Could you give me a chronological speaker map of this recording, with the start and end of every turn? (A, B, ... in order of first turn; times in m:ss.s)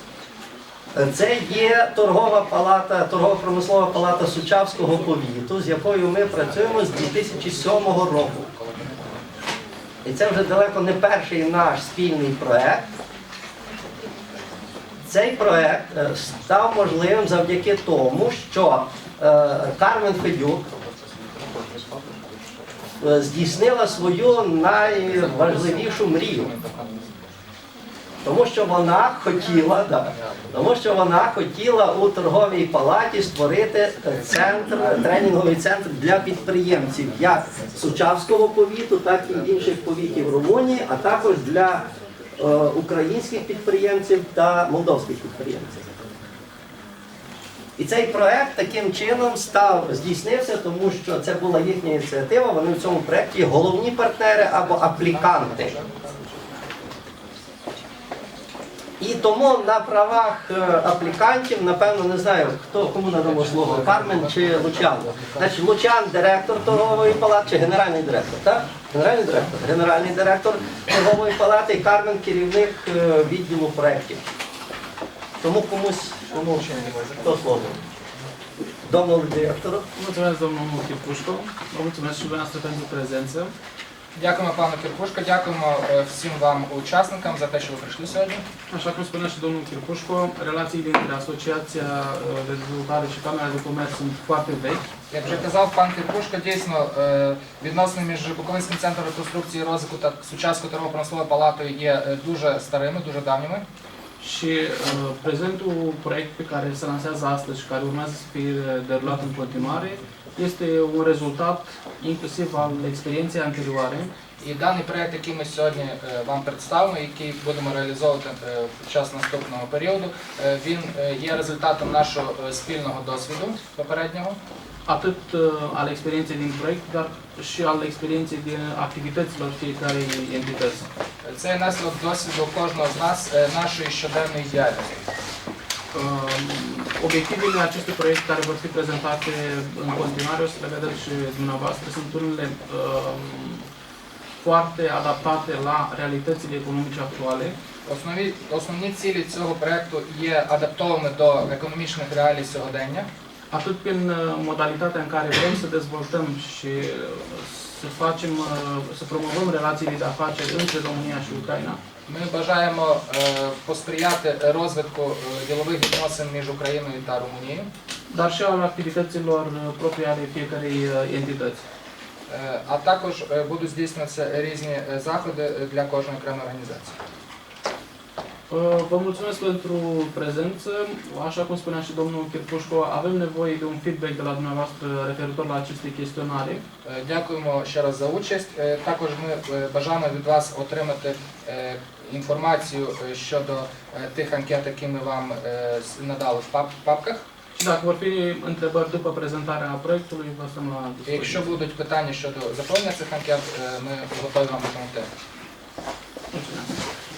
0:00.9-0:08.5 A
0:06.4-0:09.1 B
0:10.0-0:12.8 A
0:15.0-0:20.6 A
0:21.0-0:22.1 B
0:23.0-0:26.5 A
0:24.7-0:27.2 B
0:28.2-0:45.9 A
0:30.1-0:30.5 B
0:47.8-0:55.7 A
0:54.4-0:56.3 B
0:59.0-1:14.2 A
1:03.2-1:05.6 B
1:15.4-1:17.8 A
1:16.3-1:17.8 B
1:18.9-1:19.8 A
1:20.0-1:23.5 C
1:24.2-1:28.4 B
1:28.7-1:34.9 C
1:35.1-1:43.6 B
1:44.2-1:54.1 C
1:54.4-2:04.4 B
2:04.9-2:10.9 C
2:11.2-2:15.1 B
2:15.9-2:23.7 C
2:24.4-2:27.6 C
2:27.9-2:33.1 B
2:33.5-2:41.8 C
2:42.1-2:47.7 B
2:48.1-2:51.6 C
2:52.3-2:57.0 B
2:58.5-3:06.6 C
3:06.8-3:17.2 B
3:17.6-3:21.6 C
3:21.1-3:25.1 B
3:26.3-3:26.8 C